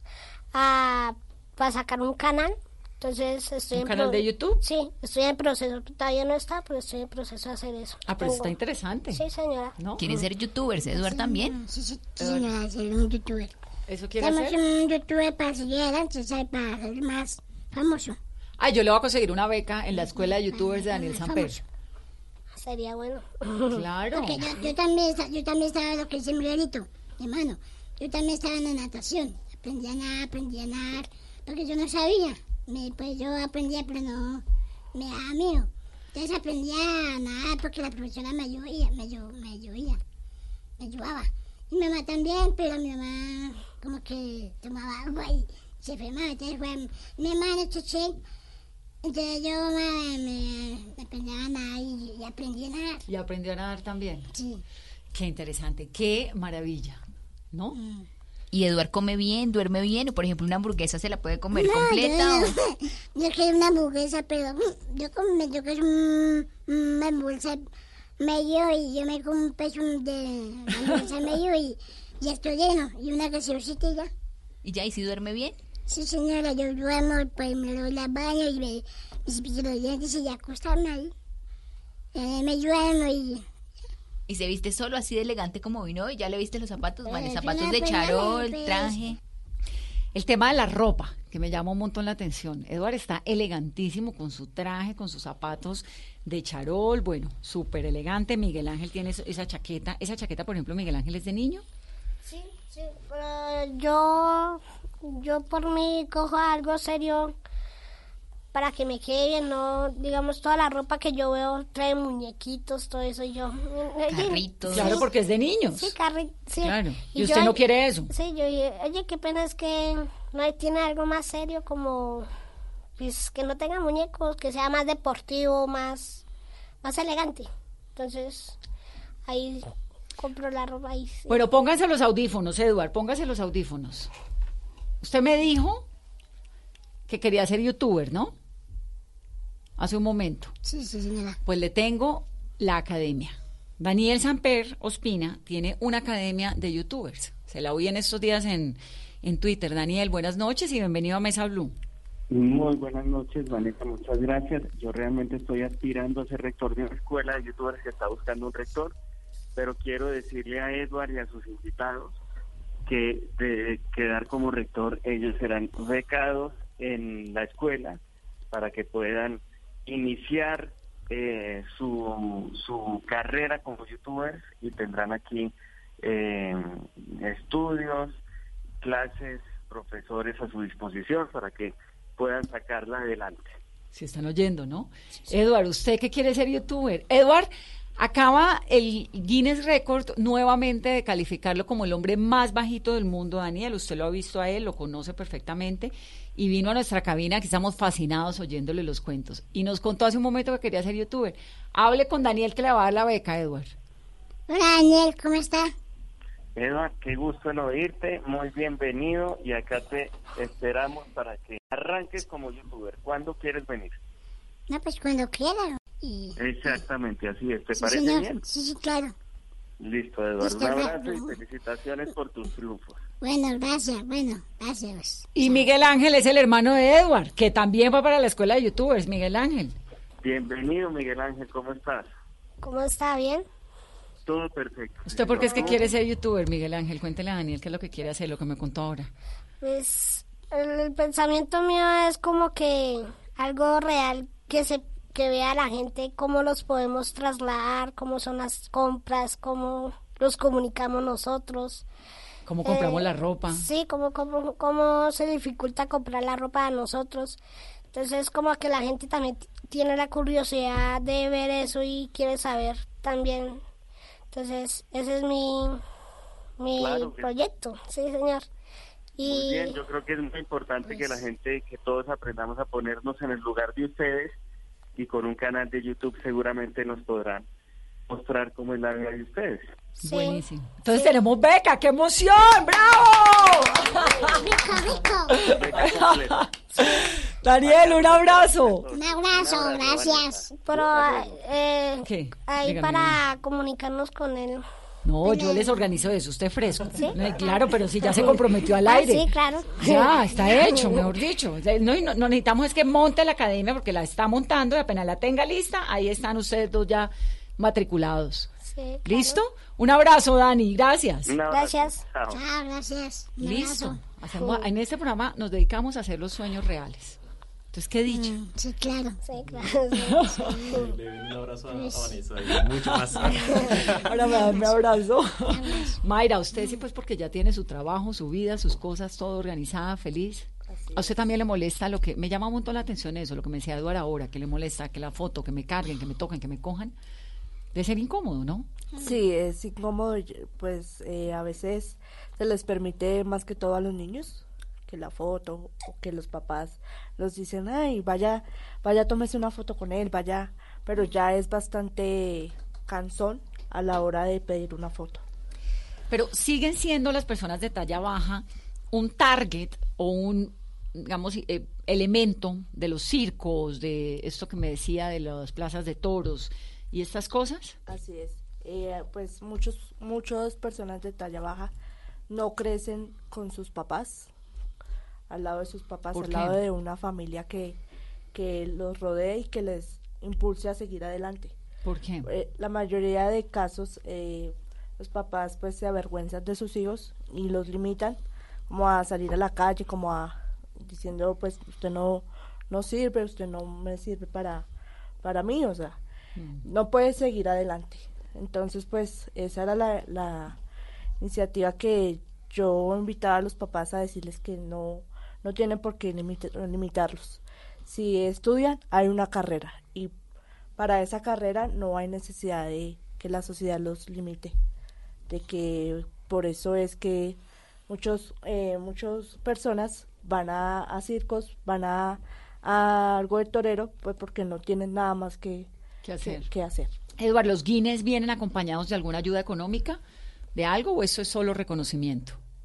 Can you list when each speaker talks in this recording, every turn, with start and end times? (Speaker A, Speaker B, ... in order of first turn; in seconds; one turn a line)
Speaker A: 0.5-8.5
Speaker B: 3.7-4.6
Speaker B: 8.1-9.2
Speaker A: 9.1-9.8
Speaker B: 9.8-10.2
Speaker C: 10.0-11.6
Speaker D: 10.9-13.5
Speaker B: 12.2-12.5
Speaker B: 13.9-14.6
Speaker D: 14.2-18.2
Speaker B: 18.6-21.6
Speaker D: 20.1-21.6
Speaker A: 22.6-23.8
Speaker B: 23.7-24.6
Speaker D: 24.1-40.0
Speaker D: 40.8-48.2
Speaker D: 49.0-53.0
Speaker B: 53.1-54.3
Speaker D: 54.3-54.6
Speaker B: 55.1-57.8
Speaker D: 57.7-58.1
Speaker C: 58.5-62.6
Speaker D: 61.5-67.6
Speaker D: 68.2-74.1
Speaker C: 74.6-75.6
Speaker D: 75.9-81.1
Speaker D: 82.1-83.5
Speaker C: 84.3-89.2
Speaker D: 87.1-89.2
Speaker B: 90.1-101.6
Speaker A: 102.2-107.3
Speaker A: 108.5-115.0
Speaker C: 114.1-115.0
Speaker B: 114.7-115.9
Speaker A: 115.8-117.6
Speaker B: 116.6-118.1
Speaker A: 118.1-122.3
Speaker A: 123.0-126.2
Speaker A: 126.8-128.6
Speaker A: 129.3-131.4
Speaker B: 131.3-134.1
Speaker B: 135.0-135.8
Speaker B: 137.1-138.3
Speaker B: 139.8-140.5
Speaker D: 140.6-141.4
Speaker B: 141.4-151.8
Speaker E: 152.3-158.9
Speaker E: 159.6-162.2
Speaker E: 162.9-168.0
Speaker E: 168.5-178.2
Speaker E: 178.8-183.5
Speaker B: 183.9-203.8
Speaker D: 204.5-205.7
Speaker E: 206.6-214.0
Speaker D: 214.7-216.7
Speaker E: 216.4-218.4
Speaker D: 217.7-219.1
Speaker E: 219.8-223.0
Speaker D: 220.4-221.4
Speaker D: 223.2-225.7
Speaker B: 225.3-229.8
Speaker E: 230.2-232.1
Speaker A: 232.6-233.4
Speaker E: 234.3-235.8
Speaker B: 235.1-239.1
Speaker A: 235.4-235.9
Speaker A: 239.6-251.8
Speaker B: 252.5-253.7
Speaker A: 252.6-257.4
Speaker A: 257.9-263.6
Speaker A: 264.3-265.8
Speaker A: 266.6-268.5
Speaker E: 266.8-267.4
Speaker A: 269.2-269.8
Speaker E: 269.2-274.4
Speaker A: 270.9-271.2
Speaker E: 275.0-277.5
Speaker E: 278.1-279.7
Speaker A: 280.0-281.1
Speaker B: 280.0-284.5
Speaker D: 284.3-285.5
Speaker B: 285.3-288.9
Speaker E: 285.4-291.4
Speaker D: 288.9-290.6
Speaker A: 290.6-294.6
Speaker B: 292.0-293.2
Speaker B: 295.0-308.5
Speaker D: 295.2-295.8
Speaker A: 296.9-301.0
Speaker A: 308.6-309.4
Speaker B: 309.1-311.3
Speaker E: 311.3-312.4
Speaker A: 311.5-312.0
Speaker D: 312.3-314.0
Speaker B: 313.4-317.2
Speaker A: 314.4-314.6
Speaker B: 317.7-318.4
Speaker D: 318.1-319.2
Speaker A: 319.2-320.9
Speaker B: 320.0-320.6
Speaker F: 320.7-324.1
Speaker D: 321.7-322.2
Speaker B: 323.2-323.7
Speaker G: 324.0-325.6
Speaker D: 325.5-326.0
Speaker B: 326.0-336.9
Speaker G: 330.7-331.1
Speaker B: 337.7-338.7
Speaker G: 339.0-355.2
Speaker B: 356.1-367.8
Speaker G: 367.9-371.7
Speaker G: 372.3-374.3
Speaker G: 375.3-377.8
Speaker B: 376.1-376.6
Speaker G: 378.3-381.6
Speaker B: 381.8-382.3
Speaker G: 382.2-394.7
Speaker G: 395.2-396.0
Speaker B: 396.4-396.6
Speaker G: 396.6-400.6
Speaker G: 401.2-410.1
Speaker G: 410.8-414.6
Speaker G: 415.3-417.4
Speaker G: 417.9-425.7
Speaker B: 426.0-426.5
Speaker G: 426.2-426.9
Speaker B: 427.2-430.0
Speaker B: 430.6-432.4